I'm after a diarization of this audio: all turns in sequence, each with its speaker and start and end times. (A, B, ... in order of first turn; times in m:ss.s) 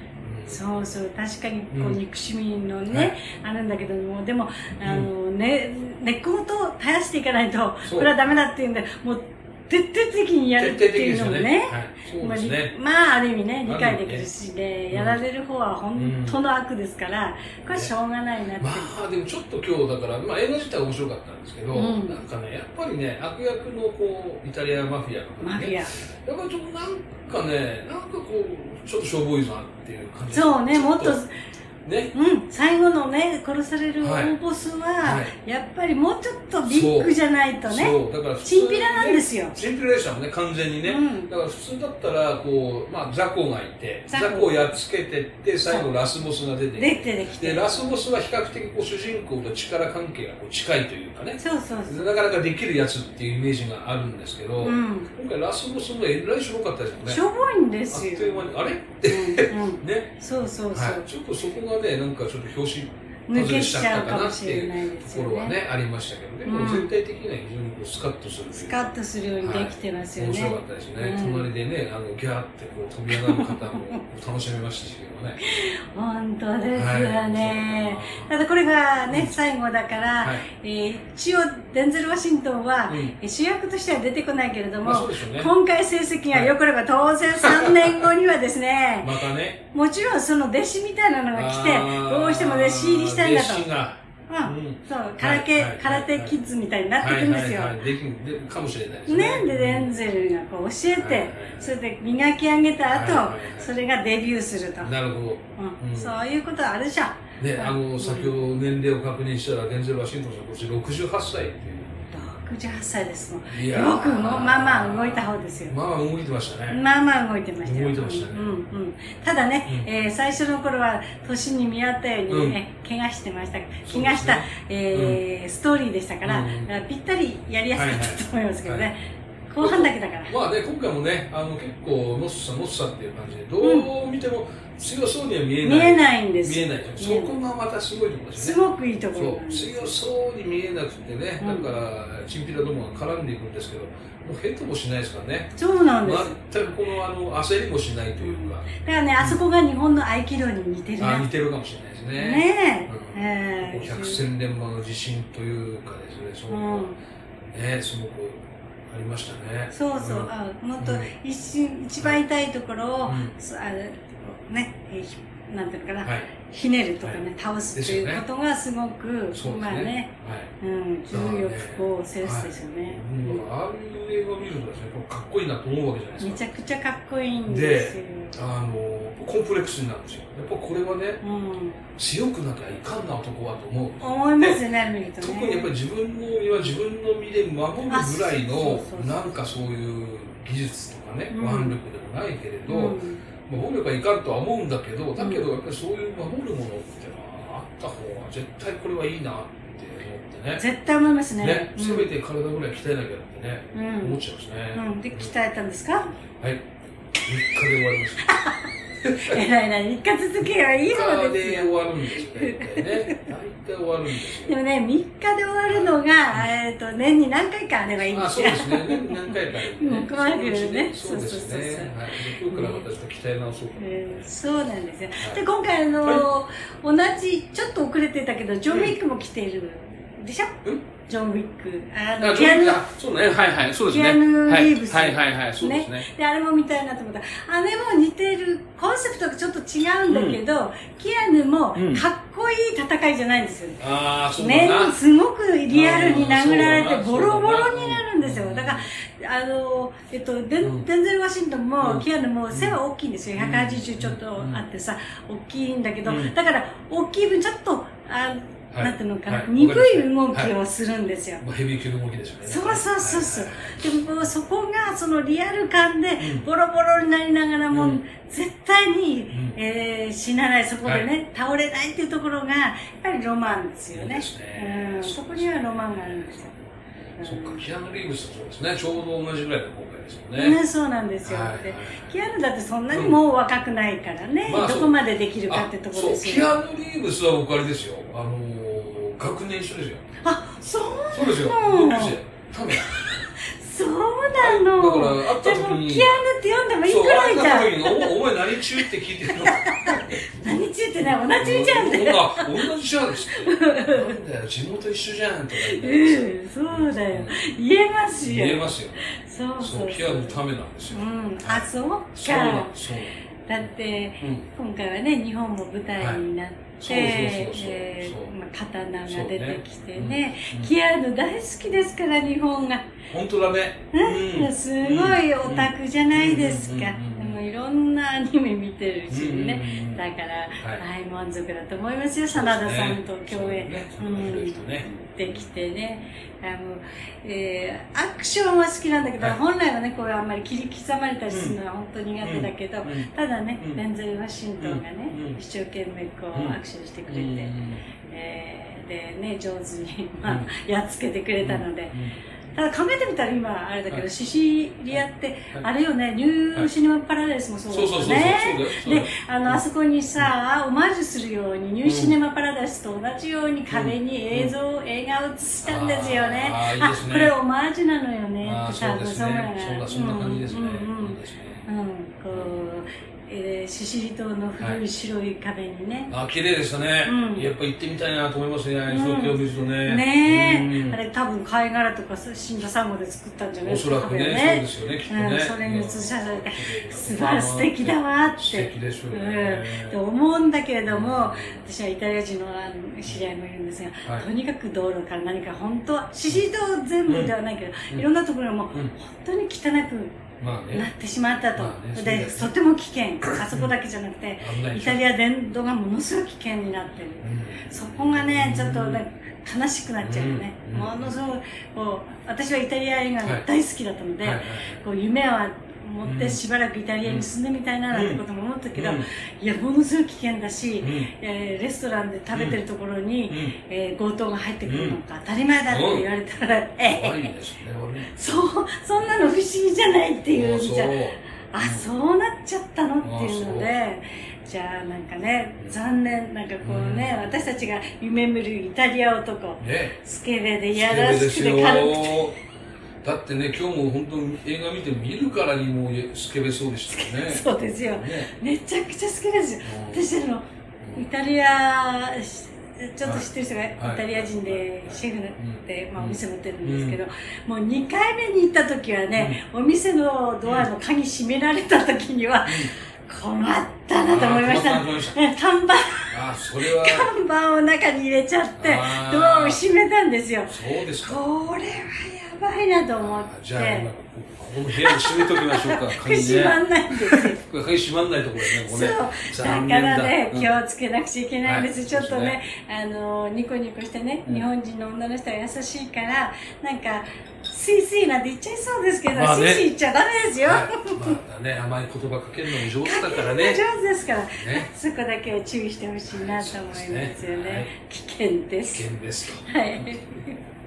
0:00.2-0:00.6 A
0:00.5-0:18.9 B
0:01.7-0:02.0 A
0:02.9-0:03.2 A
0:04.8-0:05.1 A
0:07.8-0:08.1 A
0:10.6-0:12.7 A
0:13.6-0:14.2 A
0:14.9-0:15.2 A
0:15.9-0:16.4 A
0:18.6-0:31.2 A
0:21.7-0:22.2 B
0:25.4-0:25.9 B
0:30.3-0:31.3 B
0:31.8-0:32.1 A
0:32.1-0:39.6 B
0:34.0-0:34.4 A
0:35.0-0:35.3 A
0:36.6-0:57.2 A
0:40.8-0:41.3 B
0:44.1-0:44.5 B
0:46.8-0:48.0 B
0:51.4-0:52.0 B
0:54.6-0:55.1 B
0:57.0-0:58.4 B
0:57.9-1:00.1 A
0:59.0-1:01.0 B
1:00.7-1:08.9 A
1:03.3-1:05.5 B
1:06.4-1:06.9 B
1:08.5-1:11.5 B
1:09.4-1:15.4 A
1:13.1-1:14.0 B
1:15.4-1:29.1 B
1:16.7-1:18.3 A
1:22.9-1:23.1 A
1:24.8-1:25.5 A
1:27.3-1:28.1 A
1:29.0-1:29.6 A
1:29.7-1:33.7 B
1:31.3-1:36.3 A
1:34.3-1:37.8 B
1:37.0-1:39.9 A
1:39.1-1:44.9 B
1:40.9-1:41.7 A
1:42.9-1:43.7 A
1:44.8-1:46.1 A
1:45.6-1:48.4 B
1:47.4-1:52.0 A
1:52.1-1:55.7 B
1:53.5-1:56.8 A
1:56.7-2:09.0 B
1:57.6-1:58.5 A
2:02.3-2:02.6 A
2:03.8-2:05.2 A
2:06.2-2:06.7 A
2:07.7-2:08.9 A
2:09.5-2:10.3 B
2:09.6-2:18.6 A
2:13.6-2:13.9 B
2:15.6-2:17.4 B
2:18.4-2:19.9 B
2:19.1-2:25.5 A
2:21.4-2:21.7 B
2:25.6-2:26.3 B
2:26.0-2:28.7 A
2:28.2-2:31.2 B
2:31.0-2:36.9 A
2:32.2-2:34.2 B
2:36.5-2:37.0 B
2:37.5-2:41.1 A
2:39.7-2:53.4 B
2:43.0-2:43.3 A
2:47.7-2:48.2 A
2:49.3-2:50.5 A
2:51.1-2:56.4 A
2:56.2-2:58.4 B
2:57.5-3:01.2 A
3:01.2-3:01.8 B
3:02.0-3:04.6 A
3:04.0-3:05.7 B
3:05.2-3:20.6 A
3:07.9-3:09.3 B
3:11.3-3:11.8 B
3:12.7-3:13.2 B
3:15.2-3:15.4 B
3:20.6-3:22.1 B
3:21.4-3:25.3 A
3:23.7-3:24.2 B
3:24.7-3:26.1 B
3:26.3-3:26.6 A
3:27.2-3:28.3 A
3:28.2-3:28.6 B
3:29.0-3:29.4 A
3:29.2-3:33.3 B
3:30.8-3:34.6 A
3:34.4-3:42.8 B
3:35.7-3:36.5 A
3:38.1-3:44.3 A
3:43.8-3:52.8 B
3:48.7-3:49.0 A
3:52.2-3:56.1 A
3:53.9-4:03.8 B
4:00.1-4:00.4 A
4:01.8-4:02.0 A
4:03.8-4:05.0 A
4:04.4-4:21.4 B
4:05.7-4:08.9 A
4:10.6-4:10.9 A
4:11.8-4:12.8 A
4:13.4-4:14.6 A
4:16.0-4:16.3 A
4:18.7-4:20.5 A
4:21.4-4:23.9 A
4:22.4-4:36.5 B
4:26.2-4:26.4 A
4:27.7-4:28.0 A
4:29.3-4:29.6 A
4:33.9-4:35.6 A
4:37.2-4:37.6 B
4:37.2-4:40.6 A
4:40.3-4:46.5 B
4:41.2-4:42.1 A
4:42.9-4:43.2 A
4:44.4-4:45.0 A
4:45.5-4:50.0 A
4:50.2-4:52.1 B
4:51.1-4:53.2 A
4:53.4-4:58.2 B
4:54.4-4:56.2 A
4:56.8-5:00.2 A
4:59.4-5:02.7 B
5:01.0-5:07.5 A
5:03.3-5:04.1 B
5:05.6-5:10.4 B
5:08.2-5:13.2 A
5:10.9-5:12.7 B
5:13.5-5:22.8 B
5:16.8-5:18.3 A
5:19.1-5:20.7 A
5:23.1-5:27.4 A
5:23.9-5:47.5 B
5:29.1-5:30.0 A
5:32.3-5:35.4 A
5:41.3-5:41.6 A
5:42.2-5:43.1 A
5:44.6-5:45.4 A
5:46.3-5:47.8 A
5:48.1-5:51.9 B
5:51.4-5:52.2 A
5:52.5-6:16.1 B
5:57.7-5:59.6 A
6:01.8-6:02.2 A
6:03.7-6:04.5 A
6:05.6-6:07.3 A
6:08.4-6:11.6 A
6:12.3-6:12.7 A
6:16.1-6:21.0 A
6:17.0-6:17.5 B
6:18.9-6:40.2 B
6:23.6-6:30.0 A
6:30.9-6:31.6 A
6:37.1-6:37.3 A
6:40.4-6:40.9 A
6:40.7-7:07.3 B
6:41.6-6:42.5 A
6:43.2-6:43.7 A
6:44.4-6:45.0 A
6:47.2-6:49.0 A
6:50.0-6:51.2 A
6:54.2-6:54.8 A
6:56.0-6:56.4 A
6:57.9-6:58.2 A
6:58.7-6:59.1 A
7:00.8-7:01.1 A
7:02.3-7:02.6 A
7:03.3-7:03.6 A
7:04.7-7:05.0 A
7:05.7-7:06.1 A
7:06.9-7:08.2 A
7:08.1-7:11.0 B
7:10.3-7:11.8 A
7:11.5-7:22.3 B
7:13.0-7:13.7 A
7:16.6-7:17.3 A
7:19.6-7:20.0 A
7:20.7-7:22.3 A
7:23.0-7:28.3 A
7:26.9-7:30.4 B
7:29.6-7:30.1 A
7:30.8-7:31.1 A
7:31.0-7:53.9 B
7:33.0-7:37.0 A
7:40.4-7:40.7 A
7:42.4-7:42.7 A
7:44.1-7:45.2 A
7:46.1-7:47.1 A
7:48.6-7:49.6 A
7:50.5-7:51.2 A
7:53.0-8:00.6 A
7:54.8-7:57.4 B
7:58.5-8:11.2 B
8:01.4-8:02.4 A
8:09.1-8:09.7 A
8:10.4-8:13.6 A
8:12.5-8:18.8 B
8:14.4-8:14.7 A
8:16.1-8:17.7 A
8:18.6-8:19.9 A
8:19.4-8:20.4 B